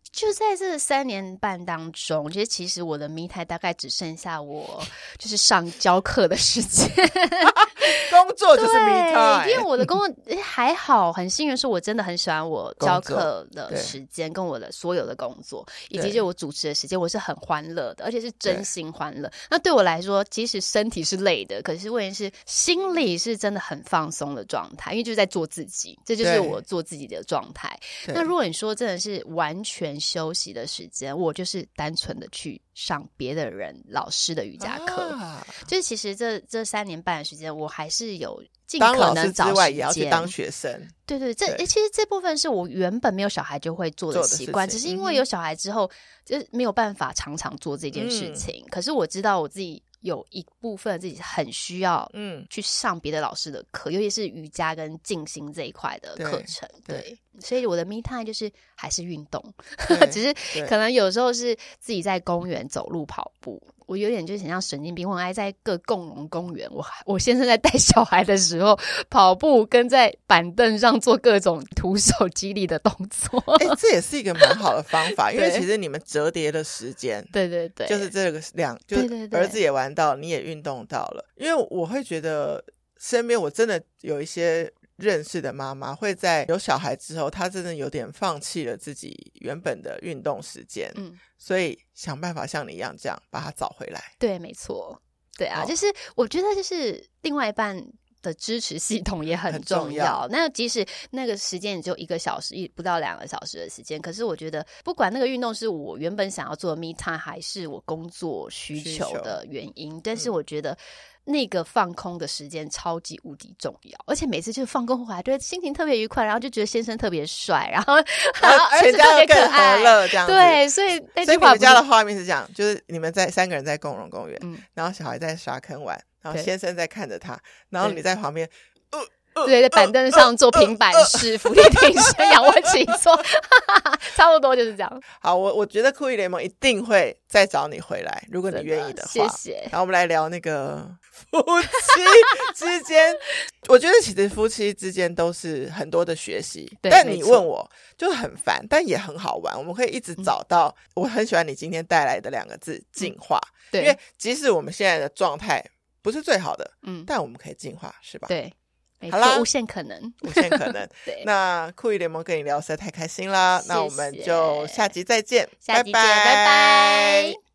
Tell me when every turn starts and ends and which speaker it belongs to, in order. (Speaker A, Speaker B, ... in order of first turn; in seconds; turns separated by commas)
Speaker A: 0.1-40.3, Speaker B: 7.5-9.9, Speaker B: 12.8-13.9, Speaker B: 15.9-16.2, Speaker B: 26.2-26.6, Speaker B: 28.0-28.3, Speaker B: 34.6-35.6, Speaker B: 38.8-40.9, Speaker A: 41.1-73.8, Speaker B: 44.1-45.3, Speaker B: 47.9-48.5, Speaker B: 52.1-52.5, Speaker B: 56.2-57.0, Speaker B: 59.9-60.7, Speaker B: 73.6-77.3, Speaker A: 75.2-75.7, Speaker A: 77.3-78.1, Speaker B: 77.9-94.1, Speaker A: 78.9-79.6, Speaker A: 94.2-121.8, Speaker B: 99.5-100.2, Speaker B: 108.8-109.4, Speaker B: 118.4-120.6, Speaker B: 121.2-133.0, Speaker A: 124.4-124.7, Speaker A: 129.4-135.0, Speaker B: 135.2-158.3, Speaker A: 138.5-139.7, Speaker A: 141.7-142.4, Speaker A: 146.8-147.4, Speaker A: 153.7-154.0, Speaker A: 156.8-157.1, Speaker A: 158.3-161.3, Speaker B: 159.1-159.5, Speaker B: 160.2-167.4, Speaker A: 163.6-164.9, Speaker A: 165.6-167.4